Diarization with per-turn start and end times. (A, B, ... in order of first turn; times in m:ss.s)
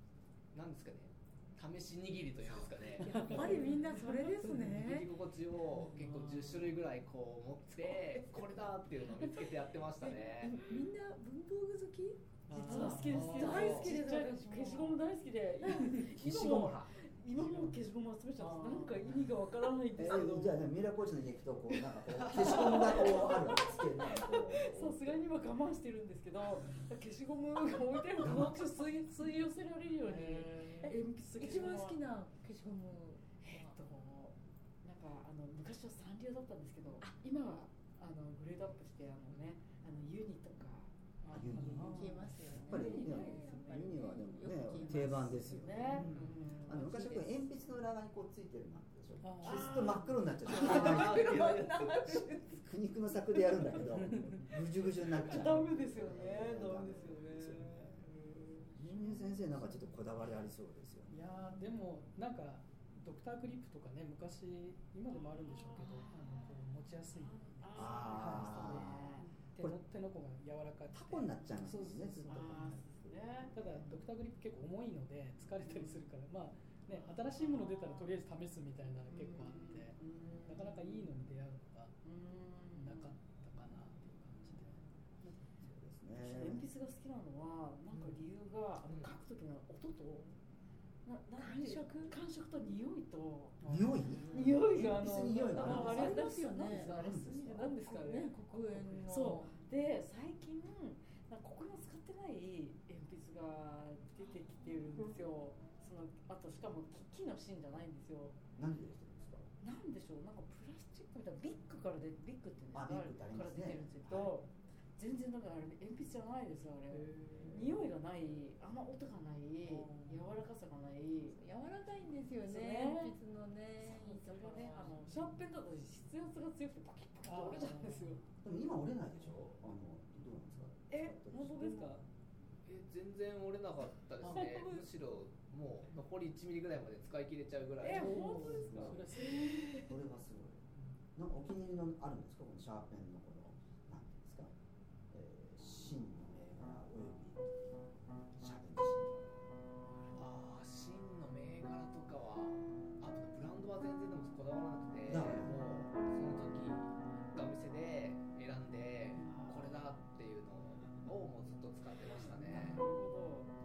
0:00.5-0:03.7 A
0:03.0-0:04.2 B
0:03.0-0:05.1 C
0:04.3-0:10.6 A
0:05.8-0:06.7 B
0:07.8-0:08.5 C
0:10.1-0:12.2 C
0:12.5-0:13.3 D
0:12.5-0:20.7 B
0:12.7-0:15.0 C
0:13.1-0:13.9 A
0:15.9-0:16.6 D
0:16.6-0:16.8 E
0:17.4-0:17.8 D
0:18.5-0:19.1 D
0:19.9-0:25.2 E
0:22.2-0:32.0 B
0:28.2-0:28.6 E
0:30.1-0:30.6 D
0:30.8-0:33.8 C
0:33.4-0:42.0 B
0:41.2-0:42.7 D
0:41.3-0:51.6 E
0:41.9-0:46.1 C
0:45.4-0:46.8 B
0:46.0-0:46.3 A
0:46.7-0:47.4 C
0:49.2-0:50.2 D
0:49.4-0:50.0 B
0:50.4-0:52.7 C
0:50.8-0:51.6 A
0:52.2-0:58.1 E
0:53.4-0:53.6 C
0:53.8-0:55.8 D
0:55.3-0:58.7 B
0:58.7-1:01.3 E
0:59.5-0:59.9 D
1:01.1-1:12.8 D
1:05.5-1:06.4 B
1:07.1-1:09.3 B
1:07.7-1:09.8 E
1:10.9-1:12.9 E
1:12.3-1:13.9 B
1:13.5-1:21.9 D
1:17.0-1:18.0 B
1:19.1-1:21.1 B
1:22.0-1:23.2 B
1:22.8-1:25.5 D
1:25.6-1:26.6 E
1:26.2-1:30.4 B
1:27.9-1:28.2 D
1:28.9-1:29.2 A
1:31.0-1:33.6 B
1:31.4-1:32.2 C
1:33.6-1:34.6 D
1:33.6-1:36.3 E
1:34.2-1:48.4 B
1:35.6-1:36.0 D
1:35.7-1:39.5 C
1:36.9-1:37.7 E
1:48.6-1:49.5 E
1:49.6-2:01.4 B
1:52.7-1:54.3 E
1:56.9-1:57.8 D
1:59.7-2:00.4 D
2:01.3-2:05.2 C
2:02.4-2:03.1 B
2:03.8-2:08.2 B
2:07.2-2:08.2 D
2:08.3-2:11.6 E
2:10.9-2:12.0 B
2:11.6-2:11.9 D
2:12.7-2:19.0 A
2:14.2-2:14.8 B
2:17.8-2:19.9 B
2:17.9-2:19.5 D
2:18.5-2:19.0 E
2:19.8-2:20.6 E
2:21.2-2:24.5 E
2:25.1-2:27.5 E
2:28.4-2:29.3 E
2:30.1-2:42.8 A
2:35.0-2:35.7 E
2:39.2-2:39.7 B
2:42.4-2:43.5 B